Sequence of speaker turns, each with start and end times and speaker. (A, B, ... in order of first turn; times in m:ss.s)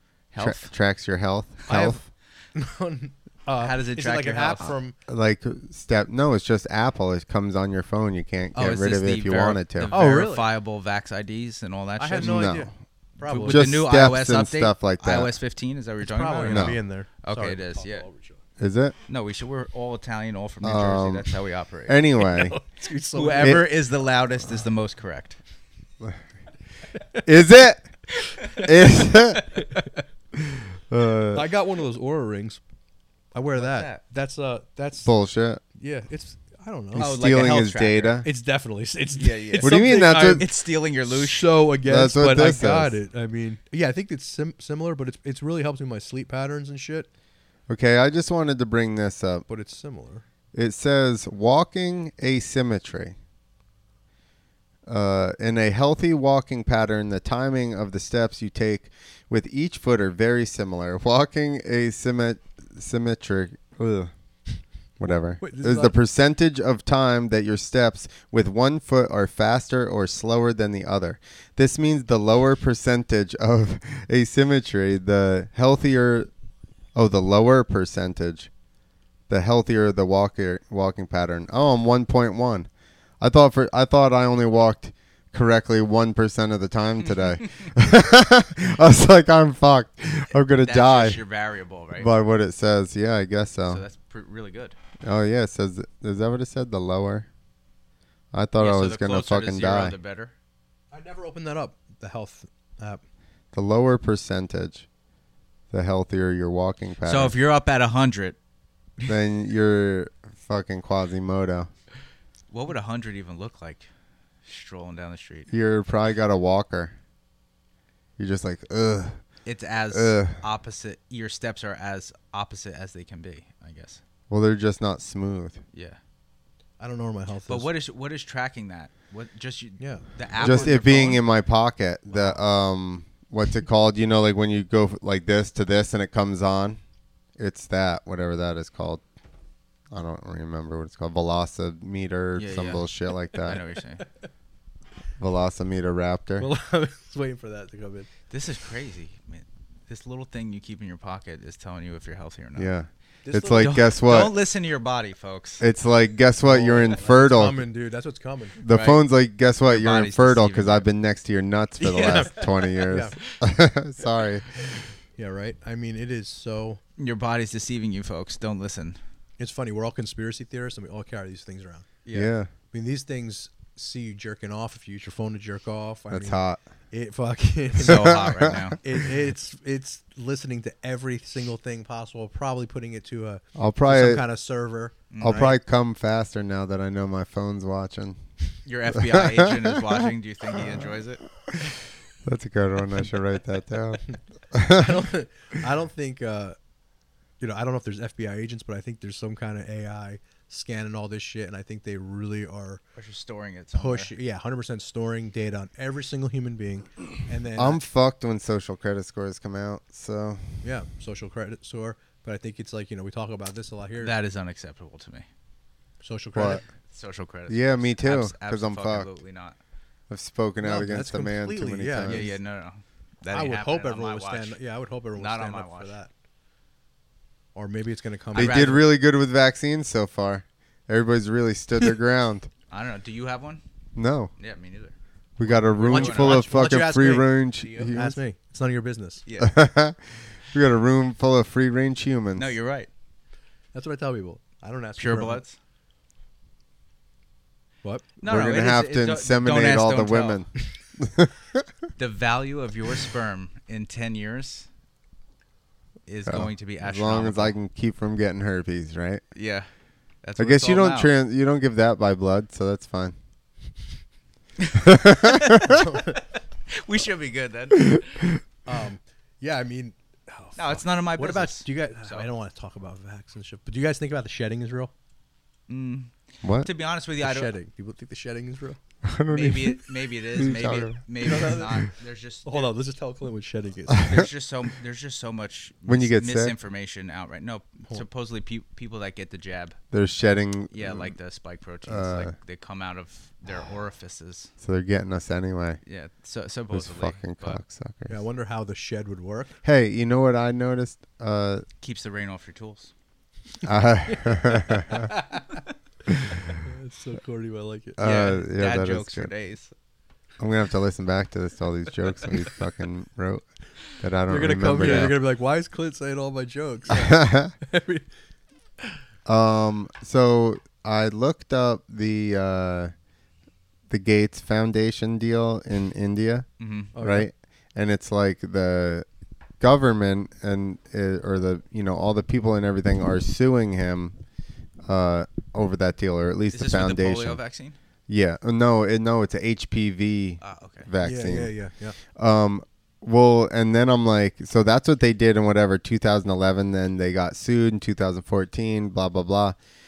0:00.3-0:00.7 A
0:00.4-0:02.0 B
0:01.7-0:05.0 C
0:03.6-0:04.7 A
0:05.1-0:10.0 B
0:08.5-0:12.6 A
0:09.9-0:10.5 C
0:12.0-0:13.8 C
0:12.2-0:12.7 B
0:13.3-0:18.1 A
0:13.4-0:15.3 B
0:16.0-0:18.4 C
0:16.5-0:16.8 B
0:18.6-0:19.0 B
0:19.1-0:22.0 A
0:20.6-0:21.3 B
0:21.9-0:22.6 B
0:22.2-0:23.7 C
0:23.1-0:25.4 A
0:27.2-0:27.9 B
0:28.5-0:30.0 C
0:28.6-0:29.5 B
0:30.4-0:31.5 B
0:31.3-0:32.6 C
0:33.3-0:35.1 C
0:33.6-0:34.0 A
0:35.0-0:35.6 B
0:35.8-0:37.2 C
0:36.9-0:38.3 B
0:37.0-0:38.2 A
0:38.2-0:40.5 C
0:39.2-0:41.6 A
0:39.6-0:40.4 B
0:41.1-0:47.1 C
0:41.8-0:43.0 B
0:47.7-0:49.4 B
0:49.5-0:50.2 C
0:50.5-0:53.2 B
0:54.9-1:04.1 B
1:05.0-1:16.3 B
1:05.4-1:06.0 C
1:17.0-1:18.5 B
1:19.3-1:22.7 B
1:23.2-1:31.2 B
1:30.6-1:32.1 A
1:32.0-1:33.8 B
1:33.7-1:34.8 A
1:35.0-1:37.3 B
1:38.3-1:40.0 B
1:38.6-1:40.3 A
1:40.9-1:43.0 C
1:43.5-1:44.9 B
1:45.7-1:47.4 B
1:47.0-1:48.4 A
1:49.1-1:51.7 B
1:52.5-1:53.9 A
1:54.4-1:55.5 A
1:55.5-1:57.0 B
1:58.2-1:59.2 B
1:59.5-2:04.0 A
1:59.9-2:00.4 B
2:04.3-2:05.6 B
2:05.7-2:06.0 A
2:06.8-2:07.7 C
2:07.5-2:11.2 A
2:09.8-2:10.7 C
2:10.4-2:16.8 B
2:17.4-2:19.0 B
2:19.9-2:23.6 B
2:22.4-2:24.0 A
2:25.2-2:26.5 B
2:26.4-2:28.1 C
2:28.3-2:32.7 A
2:32.6-2:34.4 B
2:33.2-2:33.8 C
2:33.6-2:35.6 A
2:35.6-2:37.6 B
2:36.4-2:38.6 C
2:38.6-2:44.5 B
2:38.7-2:39.0 A
2:39.6-2:40.9 A
2:41.8-2:43.3 A
2:42.0-2:42.3 C
2:42.9-2:43.2 C
2:45.2-2:46.8 C
2:47.0-2:49.0 A
2:49.4-2:51.9 C
2:52.0-2:52.3 A
2:52.1-2:52.5 B
2:52.7-2:58.2 C
2:56.1-2:56.6 B
2:57.8-2:58.8 A
2:57.9-2:58.8 B
2:58.8-3:05.5 C
3:03.6-3:04.2 B
3:05.1-3:05.6 A
3:05.2-3:08.2 B
3:08.7-3:11.2 A
3:08.9-3:10.0 B
3:10.5-3:10.8 B
3:12.2-3:15.0 B
3:14.7-3:16.6 C
3:17.4-3:22.8 C
3:23.0-3:24.1 A
3:23.7-3:27.8 C
3:27.6-3:30.6 B
3:30.6-3:34.1 C
3:34.0-3:35.3 A
3:36.0-3:36.6 C
3:36.4-3:36.6 B
3:36.9-3:39.6 A
3:37.5-3:39.1 B
3:40.1-3:42.3 B
3:40.6-3:42.4 C
3:42.0-3:44.6 A
3:43.3-3:46.1 C
3:45.2-3:46.0 A
3:47.6-3:48.8 C
3:48.3-3:48.8 A
3:48.4-3:52.5 B
3:52.7-3:53.6 A
3:54.0-3:54.3 B
3:54.4-3:54.9 A
3:55.4-3:58.2 B
3:55.4-3:56.6 A
3:55.8-3:59.2 C
3:59.3-3:59.6 A
3:59.4-4:02.6 B
4:02.4-4:02.9 A
4:03.7-4:05.4 C
4:05.0-4:05.6 A
4:08.2-4:10.5 A
4:08.2-4:11.6 B
4:12.0-4:14.7 A
4:16.1-4:17.6 A
4:16.3-4:19.2 B
4:19.3-4:19.7 A
4:20.2-4:21.1 A
4:20.4-4:23.2 B
4:24.6-4:28.3 A
4:24.8-4:25.8 B
4:25.6-4:26.2 C
4:28.7-4:34.9 C
4:30.6-4:32.3 A
4:35.7-4:37.6 A
4:36.4-4:36.7 B
4:37.2-4:38.8 C
4:39.0-4:41.0 B
4:39.3-4:42.7 A
4:41.2-4:41.9 C
4:42.4-4:44.2 C
4:44.0-4:49.8 A
4:45.9-4:46.6 B
4:49.9-4:51.1 B
4:50.7-4:54.5 A
4:51.9-4:52.3 B
4:54.6-4:55.8 B
4:55.9-4:57.6 A
4:56.7-4:58.2 B
4:58.1-4:59.6 C
4:59.6-5:01.6 B
5:01.8-5:02.9 A
5:03.6-5:05.1 B
5:04.1-5:05.6 C
5:06.1-5:06.6 B
5:06.6-5:08.0 C
5:08.0-5:09.3 B
5:08.0-5:09.7 A
5:10.4-5:13.4 B
5:14.0-5:15.2 B
5:14.3-5:18.1 C
5:16.9-5:17.5 B
5:19.3-5:22.9 B
5:23.9-5:29.1 B
5:26.6-5:26.9 A
5:26.9-5:27.3 C
5:29.6-5:34.2 B
5:34.8-5:37.4 B
5:36.5-5:37.8 A
5:38.1-5:41.5 B
5:40.4-5:40.9 A
5:41.0-5:42.0 C
5:42.2-5:49.6 B